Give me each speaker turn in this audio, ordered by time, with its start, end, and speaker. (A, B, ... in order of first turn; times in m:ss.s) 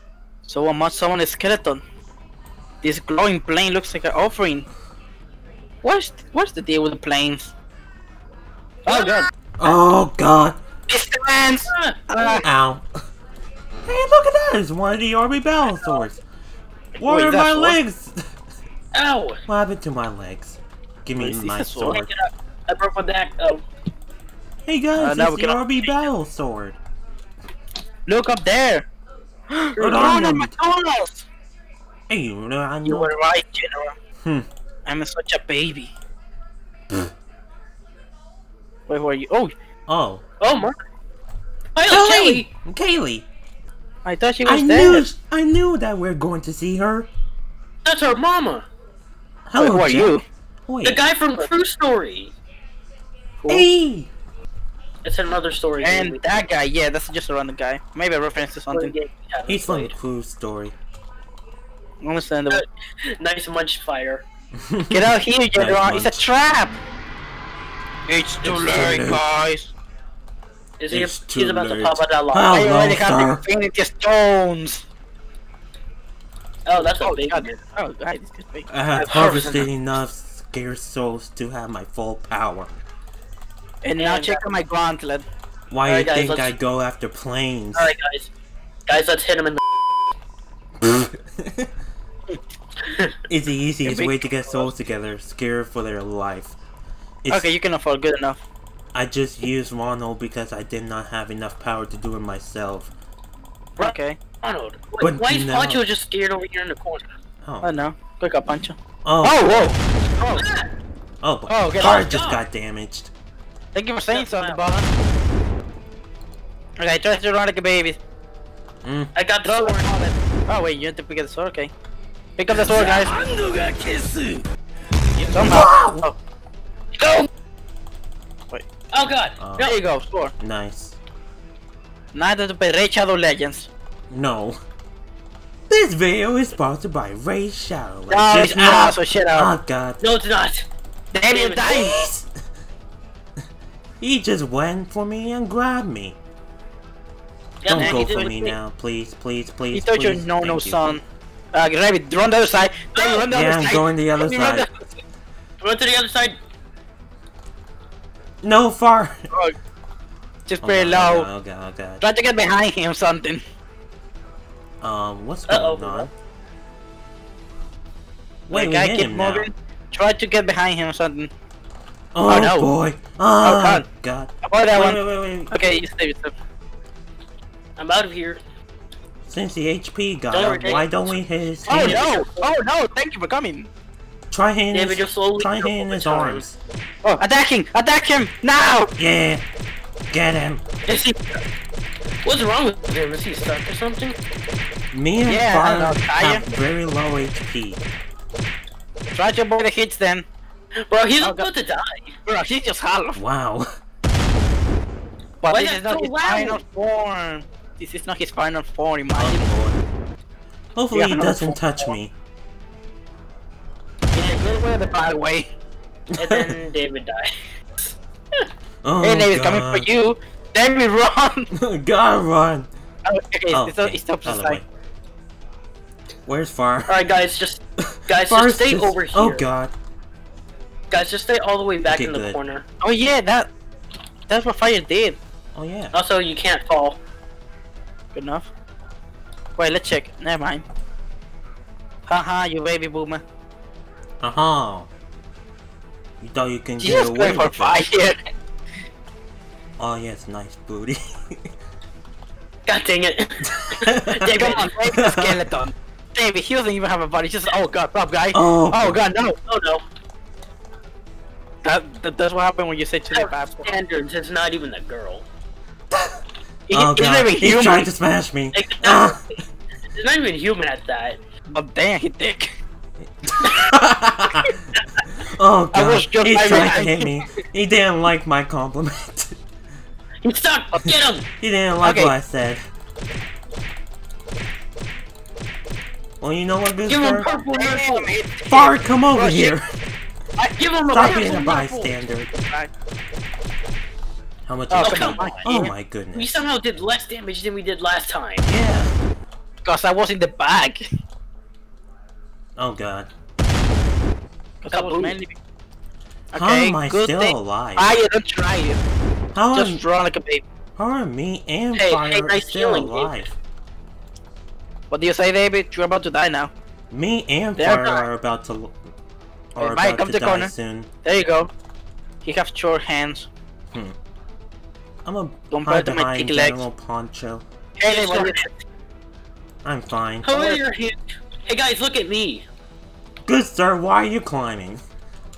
0:00.4-0:01.8 A
0:02.8-0:04.7 A
0:05.8-0:07.5 A
0:08.8-0:09.3 A
0:08.9-0:09.3 B
0:09.6-0:10.6 C
0:10.9-0:12.4 A
0:11.7-0:12.4 B
0:12.4-0:12.8 C
0:13.9-0:16.2 C
0:17.0-0:17.8 A
0:17.0-0:18.2 C
0:18.9-0:19.4 B
0:19.5-0:22.1 C
0:21.2-0:22.0 A
0:21.9-0:23.6 B
0:24.7-0:26.8 C
0:25.0-0:25.9 A
0:28.1-0:28.9 A
0:29.5-0:31.3 A
0:29.8-0:30.5 C
0:32.1-0:33.1 C
0:32.9-0:34.0 A
0:34.9-0:35.9 A
0:38.9-0:39.5 A
0:39.9-0:40.2 C
0:40.4-0:40.8 B
0:41.8-0:42.5 B
0:41.9-0:43.2 C
0:44.0-0:45.0 A
0:44.4-0:47.1 C
0:47.8-0:48.7 B
0:49.5-0:50.2 C
0:49.6-0:50.2 A
0:50.7-0:51.0 C
0:50.8-0:52.3 B
0:53.5-0:54.1 C
0:55.0-0:56.3 B
0:55.8-0:58.9 A
0:58.7-0:59.9 B
0:59.5-1:00.8 C
1:02.0-1:02.6 A
1:03.2-1:04.2 B
1:04.7-1:05.0 C
1:04.9-1:06.8 A
1:05.6-1:06.2 C
1:08.1-1:09.7 A
1:08.4-1:09.2 C
1:10.8-1:12.6 B
1:10.9-1:13.4 C
1:12.5-1:14.8 A
1:16.7-1:17.6 B
1:16.8-1:18.7 A
1:18.7-1:22.7 C
1:19.0-1:19.7 B
1:23.8-1:25.3 A
1:24.0-1:24.4 B
1:25.7-1:27.9 C
1:25.9-1:26.5 B
1:27.8-1:28.3 B
1:28.9-1:29.6 B
1:30.8-1:31.7 C
1:32.8-1:33.1 B
1:33.3-1:36.6 C
1:33.8-1:34.7 A
1:37.2-1:37.5 C
1:37.3-1:38.4 A
1:38.9-1:42.9 C
1:43.8-1:44.2 A
1:43.8-1:47.1 B
1:45.0-1:45.8 C
1:47.4-1:47.7 C
1:47.6-1:50.4 A
1:49.0-1:49.7 C
1:50.3-1:50.7 B
1:51.2-1:53.1 C
1:51.5-1:52.0 A
1:51.8-1:52.4 B
1:53.7-1:54.9 A
1:54.1-1:54.6 B
1:56.8-1:58.0 A
1:58.8-1:59.1 C
1:59.2-1:59.9 B
1:59.4-2:01.7 A
2:02.4-2:03.1 A
2:02.5-2:04.4 C
2:05.3-2:06.2 A
2:05.5-2:06.1 C
2:07.0-2:07.3 B
2:08.9-2:09.8 B
2:09.4-2:09.7 C
2:09.6-2:10.3 A
2:10.4-2:11.0 C
2:12.1-2:13.7 A
2:14.1-2:14.6 C
2:15.7-2:20.0 C
2:18.1-2:19.5 A
2:20.0-2:20.7 B
2:21.1-2:22.1 A
2:21.3-2:21.8 B
2:21.6-2:22.3 C
2:24.0-2:26.2 C
2:27.6-2:28.4 B
2:27.6-2:31.0 C
2:27.8-2:28.5 A
2:29.7-2:31.0 A
2:31.5-2:35.0 A
2:33.0-2:33.2 B
2:33.3-2:34.7 C
2:35.6-2:36.4 B
2:38.4-2:39.2 C
2:40.5-2:41.3 A
2:40.6-2:42.0 C
2:42.0-2:43.4 A
2:44.8-2:46.1 C
2:45.5-2:46.1 B
2:48.5-2:49.5 C
2:48.5-2:51.3 A
2:52.2-2:55.5 C
2:52.3-2:52.7 A
2:53.4-2:53.8 A
2:54.4-2:55.0 A
2:55.5-2:56.3 A
2:57.8-2:58.4 B
2:59.3-3:02.0 C
3:00.3-3:00.9 B
3:01.7-3:02.5 B
3:01.7-3:03.7 A
3:04.3-3:06.6 C
3:04.7-3:06.4 B
3:07.0-3:08.9 A
3:09.0-3:09.4 C
3:10.1-3:10.6 C
3:10.9-3:11.4 B
3:12.2-3:14.2 B
3:14.9-3:17.8 C
3:15.2-3:16.4 A
3:19.1-3:20.3 A
3:20.9-3:22.2 B
3:21.2-3:21.5 A
3:22.3-3:23.2 A
3:23.2-3:23.7 C
3:25.4-3:29.5 A
3:25.5-3:26.6 B
3:29.2-3:29.8 C
3:30.8-3:32.1 C
3:30.9-3:31.9 A
3:34.2-3:34.6 B
3:34.4-3:35.5 A
3:36.2-3:38.4 B
3:36.2-3:36.6 C
3:38.8-3:39.9 C
3:39.0-3:41.5 A
3:41.5-3:42.7 C
3:43.0-3:44.6 A
3:43.5-3:44.6 C
3:46.3-3:47.0 C
3:46.9-3:49.4 B
3:48.1-3:49.7 C
3:50.9-3:52.6 B
3:51.9-3:52.4 C
3:52.8-3:53.5 A
3:54.3-3:55.2 A
3:55.6-3:55.9 C
3:55.9-3:57.0 B
3:58.1-3:58.5 A
3:59.6-4:00.6 A
4:02.1-4:03.2 A
4:04.2-4:04.9 C
4:06.2-4:07.8 C
4:06.8-4:08.2 A
4:09.8-4:11.4 C
4:12.7-4:14.7 B
4:13.5-4:15.4 C
4:14.3-4:19.4 A
4:18.3-4:19.0 C
4:19.5-4:19.8 B
4:21.6-4:23.7 A
4:23.1-4:25.2 B
4:26.7-4:27.9 A
4:26.7-4:29.2 C
4:28.5-4:29.4 B
4:29.9-4:31.2 B
4:31.5-4:32.6 A
4:33.4-4:34.5 C
4:35.3-4:39.4 C
4:35.7-4:37.2 A
4:40.2-4:41.2 B
4:41.4-4:42.6 C
4:41.8-4:42.1 A
4:46.2-4:47.3 C
4:46.9-4:48.1 B
4:47.3-4:49.6 A
4:48.5-4:49.6 C
4:50.4-4:52.7 A
4:50.6-4:51.6 B
4:50.9-4:52.3 C
4:54.4-4:56.4 C
4:54.7-4:55.7 A
4:54.8-4:55.4 B
4:56.1-4:58.4 B
4:58.4-4:58.9 C
4:59.6-5:00.8 A
5:02.6-5:03.1 C
5:04.6-5:05.4 A
5:04.7-5:05.2 B
5:06.3-5:08.8 A
5:06.3-5:07.9 C
5:09.4-5:09.8 C
5:09.5-5:10.4 A
5:10.8-5:13.4 C
5:11.8-5:13.2 B
5:14.9-5:16.5 A
5:16.9-5:18.7 C
5:17.6-5:18.0 A
5:19.6-5:20.9 C
5:19.6-5:20.5 A
5:21.0-5:21.5 A
5:22.2-5:23.3 A
5:25.0-5:27.4 C
5:25.5-5:26.6 A
5:27.8-5:28.5 A
5:27.9-5:28.5 B
5:29.6-5:30.3 C
5:30.2-5:32.4 B
5:30.3-5:30.6 A
5:33.3-5:34.8 C